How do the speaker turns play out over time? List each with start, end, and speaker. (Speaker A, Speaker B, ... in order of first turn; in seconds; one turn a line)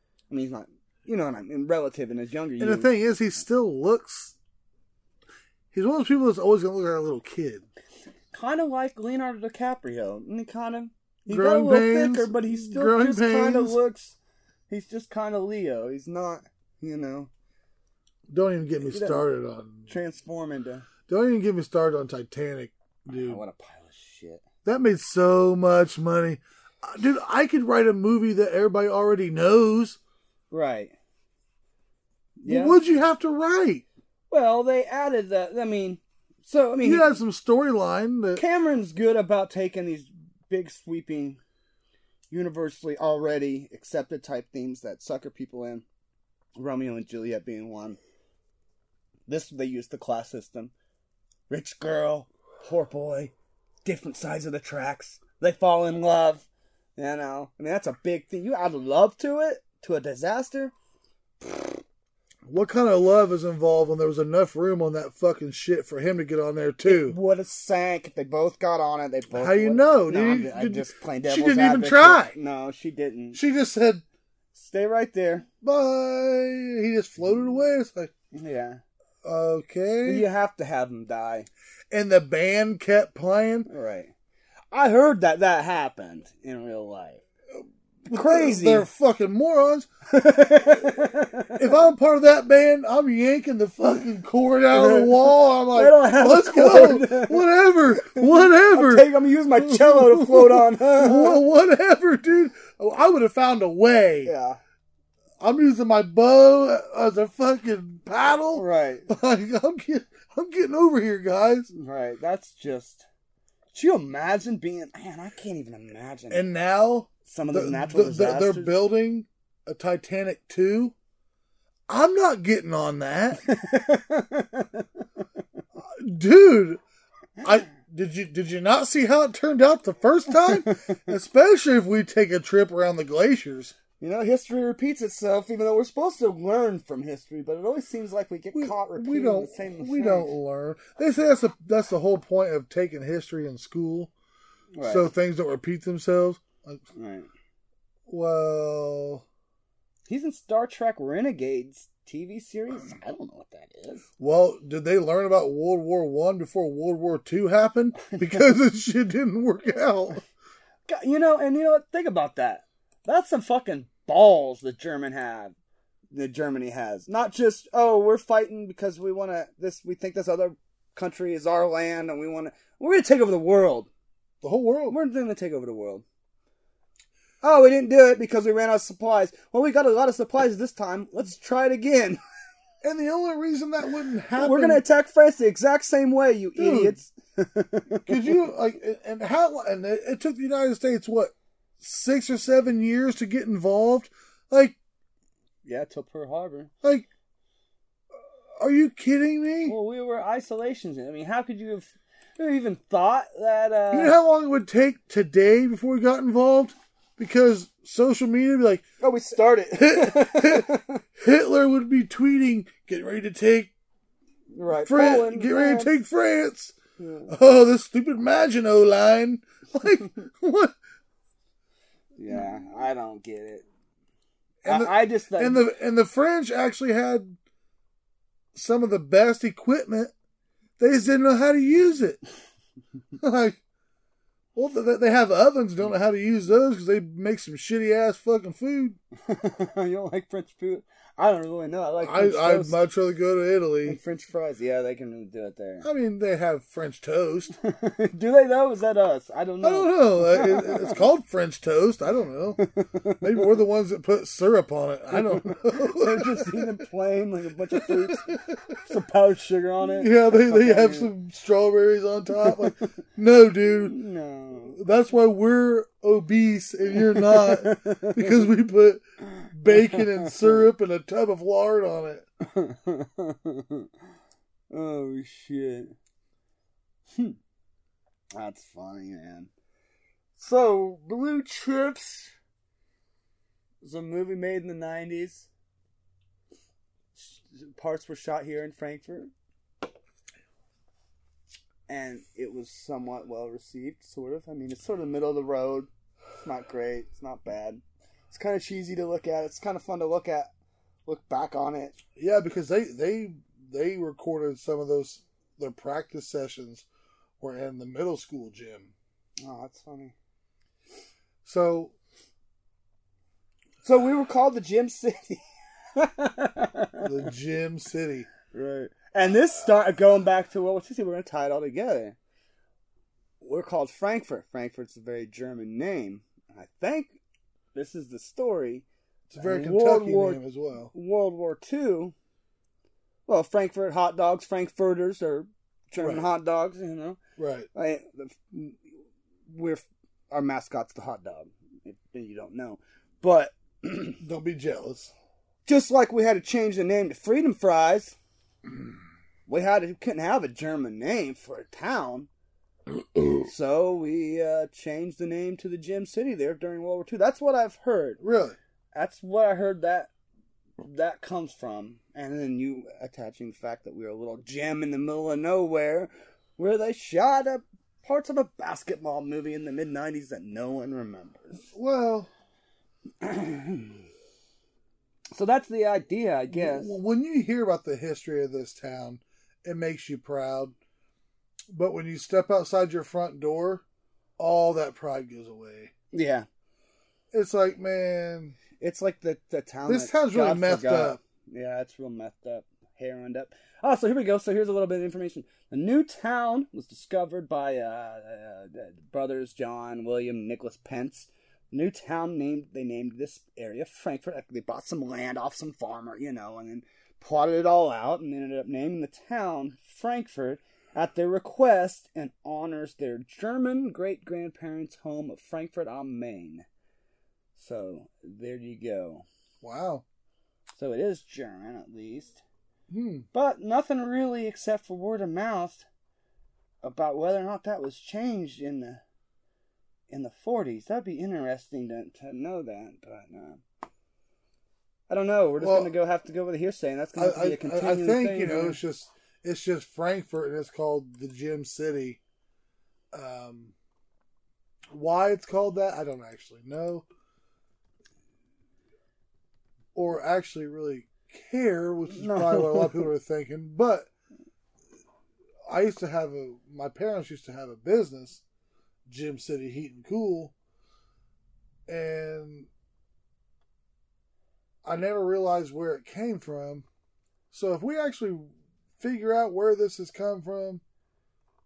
Speaker A: 0.3-2.9
Speaker B: 2.6-4.4
Speaker B: 5.7-7.7
Speaker A: 8.3-14.2
Speaker B: 11.3-13.8
Speaker A: 14.7-17.3
Speaker B: 18.3-19.9
Speaker A: 18.8-19.2
Speaker A: 19.9-20.9
Speaker B: 21.1-23.4
Speaker A: 23.1-24.4
Speaker B: 24.6-30.0
Speaker A: 30.5-30.9
Speaker A: 32.4-32.8
Speaker B: 32.5-33.8
Speaker A: 34.3-37.1
Speaker B: 36.8-38.4
Speaker A: 38.4-41.4
Speaker A: 42.3-45.8
Speaker A: 46.5-48.0
Speaker A: 49.3-50.7
Speaker A: 51.5-53.3
Speaker A: 53.8-60.7
Speaker A: 61.4-61.8
Speaker B: 62.5-67.2
Speaker A: 66.8-73.4
Speaker B: 69.3-72.4
Speaker B: 73.3-74.0
Speaker A: 74.5-75.5
Speaker B: 75.6-78.1
Speaker A: 78.3-78.8
Speaker B: 79.2-80.3
Speaker A: 80.0-81.5
Speaker B: 81.9-83.7
Speaker A: 83.7-84.1
Speaker A: 84.7-87.2
Speaker B: 88.0-89.9
Speaker A: 88.1-88.9
Speaker A: 90.1-91.6
Speaker B: 90.7-91.0
Speaker B: 91.5-104.3
Speaker A: 94.7-101.4
Speaker A: 104.2-104.6
Speaker B: 105.4-111.7
Speaker A: 108.5-109.1
Speaker A: 111.7-113.0
Speaker A: 113.7-116.4
Speaker B: 116.3-120.9
Speaker A: 117.2-118.8
Speaker B: 121.9-123.4
Speaker A: 123.4-124.9
Speaker B: 125.8-126.8
Speaker B: 127.4-133.7
Speaker A: 130.4-131.0
Speaker A: 134.0-140.3
Speaker B: 138.5-144.1
Speaker A: 144.7-145.1
Speaker B: 144.8-146.8
Speaker A: 146.9-147.3
Speaker B: 148.1-149.2
Speaker A: 150.1-154.1
Speaker B: 154.2-160.2
Speaker A: 158.0-158.5
Speaker A: 160.9-165.6
Speaker A: 166.1-173.9
Speaker B: 174.4-175.0
Speaker A: 174.9-176.0
Speaker A: 177.4-182.2
Speaker B: 182.8-184.8
Speaker A: 184.4-188.4
Speaker B: 186.6-187.0
Speaker B: 188.1-194.8
Speaker A: 195.6-196.7
Speaker B: 196.8-197.1
Speaker B: 198.6-199.7
Speaker A: 199.7-204.2
Speaker B: 203.9-208.9
Speaker A: 209.0-211.0
Speaker B: 209.8-213.7
Speaker A: 214.5-215.9
Speaker B: 214.8-216.8
Speaker A: 217.0-217.3
Speaker B: 217.3-220.8
Speaker A: 222.2-223.6
Speaker B: 224.6-227.4
Speaker A: 224.7-225.6
Speaker B: 228.5-230.1
Speaker B: 230.8-232.2
Speaker B: 233.2-233.6
Speaker B: 234.6-239.0
Speaker A: 239.2-242.8
Speaker B: 242.0-244.0
Speaker A: 243.8-245.9
Speaker B: 245.8-247.6
Speaker A: 247.6-251.0
Speaker B: 249.6-252.6
Speaker A: 252.6-253.6
Speaker B: 253.2-256.7
Speaker A: 255.1-261.1
Speaker B: 257.7-258.8
Speaker B: 259.9-263.9
Speaker A: 262.4-262.8
Speaker A: 263.7-264.8
Speaker B: 264.7-272.3
Speaker A: 266.9-268.4
Speaker A: 269.4-270.6
Speaker A: 272.4-273.9
Speaker A: 274.7-275.9
Speaker A: 278.3-279.5
Speaker A: 280.4-282.3
Speaker A: 283.8-285.5
Speaker A: 287.1-289.3
Speaker A: 291.9-295.9
Speaker A: 296.4-300.5
Speaker A: 301.1-302.0
Speaker B: 302.1-306.9
Speaker B: 307.4-308.9
Speaker A: 309.4-310.1
Speaker B: 311.4-311.9
Speaker A: 313.8-315.4
Speaker A: 315.9-317.1
Speaker B: 317.0-318.3
Speaker A: 318.5-322.1
Speaker A: 323.4-327.1
Speaker A: 327.7-328.8
Speaker B: 329.3-330.9
Speaker A: 329.4-332.1
Speaker A: 333.3-337.2
Speaker B: 336.0-336.3
Speaker B: 337.4-337.7
Speaker A: 337.7-338.8
Speaker A: 339.5-344.2
Speaker B: 344.2-345.1
Speaker A: 345.6-348.1
Speaker A: 349.5-352.3
Speaker A: 353.3-358.2
Speaker B: 358.2-358.6
Speaker A: 358.9-360.1
Speaker A: 360.8-371.7
Speaker B: 371.7-372.3
Speaker A: 373.2-374.0
Speaker A: 375.3-376.9
Speaker B: 376.5-380.7
Speaker B: 381.7-383.8
Speaker B: 384.4-385.9
Speaker A: 386.1-386.4
Speaker B: 387.3-388.6
Speaker A: 388.8-416.6
Speaker B: 389.9-391.2
Speaker A: 417.6-419.2
Speaker B: 419.6-420.0
Speaker A: 420.8-422.4
Speaker B: 422.9-423.3
Speaker A: 423.3-425.8
Speaker A: 426.8-429.0
Speaker A: 430.1-433.6
Speaker A: 435.1-438.8
Speaker B: 435.6-435.9
Speaker B: 437.1-442.2
Speaker B: 443.1-443.7
Speaker B: 444.9-447.1
Speaker B: 449.9-454.1
Speaker A: 452.1-453.1
Speaker B: 455.6-458.4
Speaker B: 459.1-460.5
Speaker B: 461.9-462.7
Speaker B: 464.8-466.9
Speaker B: 467.5-470.8